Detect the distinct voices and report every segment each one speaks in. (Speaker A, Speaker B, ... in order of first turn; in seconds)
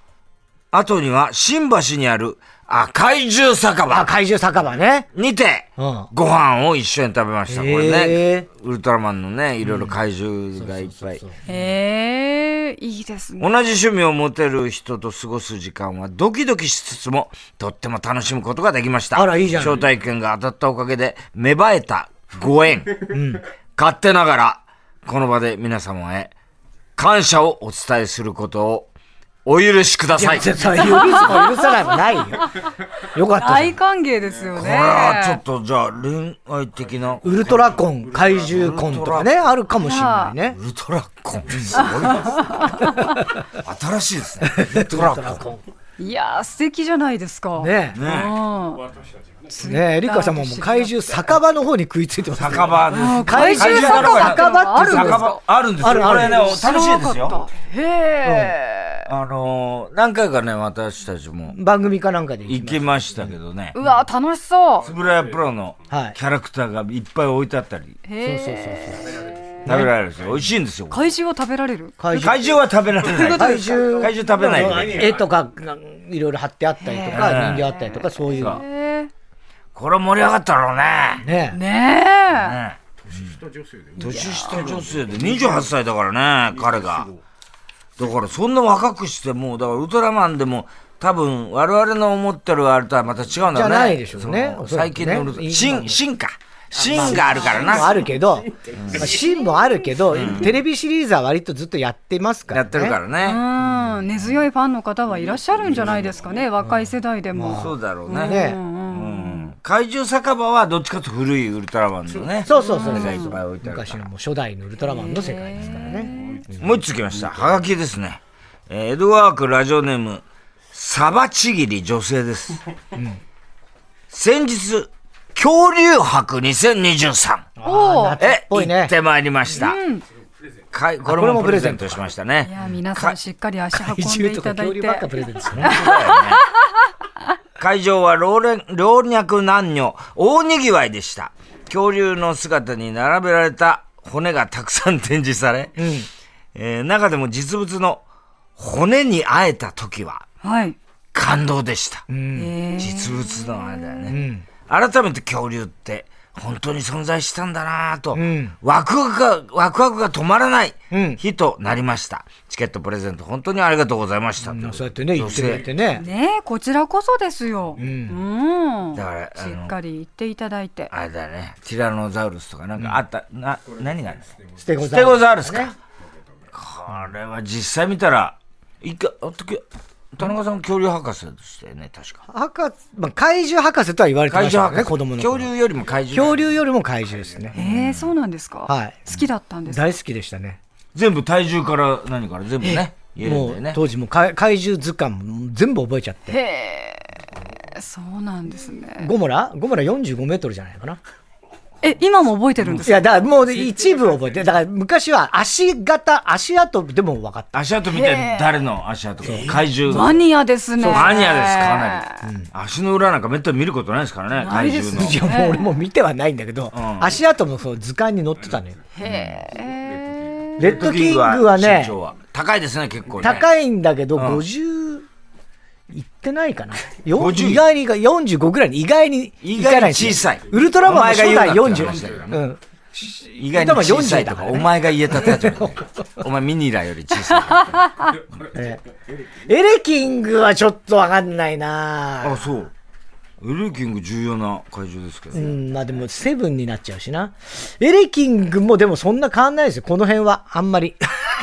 Speaker A: 0.7-4.2, 5.1-11.2, 13.4-23.1, 23.8-26.3, 27.0-28.9, 29.4-30.5, 34.5-37.7, 38.5-39.3, 40.5-42.9, 43.6-45.4, 47.9-48.4, 52.4-57.4, 59.1-61.5, 62.5-63.7, 64.8-68.0, 69.7-71.0, 72.1-75.1, 77.1-77.7, 79.7-81.2, 82.3-83.4, 84.0-87.1, 88.0-98.0, 98.7-99.1, 100.1-100.5, 102.5-103.4, 107.6-114.0, 116.6-122.6, 124.1-127.5, 128.2-129.8, 130.7-133.2, 135.6-136.4, 137.6-145.8, 146.5-148.0, 148.6-150.2, 151.1-152.0, 152.8-165.7, 168.9-169.7, 170.9-175.7, 176.5-179.6, 180.1-182.2, 184.3-186.4, 187.5-188.0, 190.9-193.8, 207.5-210.2, 210.9-215.2, 216.7-217.2, 219.0-219.4, 220.6-223.4, 224.1-224.4, 227.1-227.6, 229.4-232.4, 233.4-237.8, 242.2-242.7, 243.4-245.5
Speaker B: 3.9-5.1, 5.8-6.1, 7.5-8.4, 9.6-10.0, 10.6-11.4, 19.1-19.8, 23.1-23.4, 30.1-32.5, 33.1-33.8, 37.2-40.6, 41.5-41.8, 44.4-45.6, 47.6-48.0, 49.6-56.5, 58.2-58.5, 61.5-63.3, 65.9-66.2, 68.2-69.9, 72.0-72.5, 73.2-78.6, 81.2-81.6, 93.5-96.0, 96.8-103.0, 106.6-108.6, 112.4-116.6, 122.9-123.2, 127.6-128.9, 131.1-132.0, 133.8-135.8, 145.8-146.1, 152.1-152.5, 154.1-154.4, 158.1-158.5, 160.9-161.2, 164.4-166.0, 167.8-168.2, 174.6-175.7, 182.3-185.5, 186.1-187.6, 188.7-190.6, 193.2-196.4, 199.0-201.0, 202.8-207.6, 209.2-210.2, 210.8-211.3, 212.2-212.5, 214.9-218.8, 220.6-221.9, 223.2-225.1, 225.9-235.8, 238.5-238.8, 239.4-242.5, 245.3-251.1
Speaker C: 11.5-13.5, 30.8-31.9, 32.4-32.7, 33.4-35.4, 39.8-40.3, 41.8-43.0, 46.0-48.8, 49.5-50.9, 52.9-55.4, 56.2-59.1, 63.7-64.9, 68.0-69.4, 70.9-72.0, 73.1-73.7, 76.8-79.1, 81.5-82.6, 84.0-84.6, 97.2-97.7, 99.3-99.6, 103.2-109.5, 112.5-113.4, 114.8-116.4, 127.6-128.2, 129.6-130.0, 132.4-135.1, 135.6-136.4, 150.4-150.8, 152.3-153.2, 165.9-170.9, 187.5-189.8, 196.3-199.1, 201.8-203.1, 207.9-208.5, 209.9-212.2, 214.4-215.7, 218.9-220.6, 237.8-238.1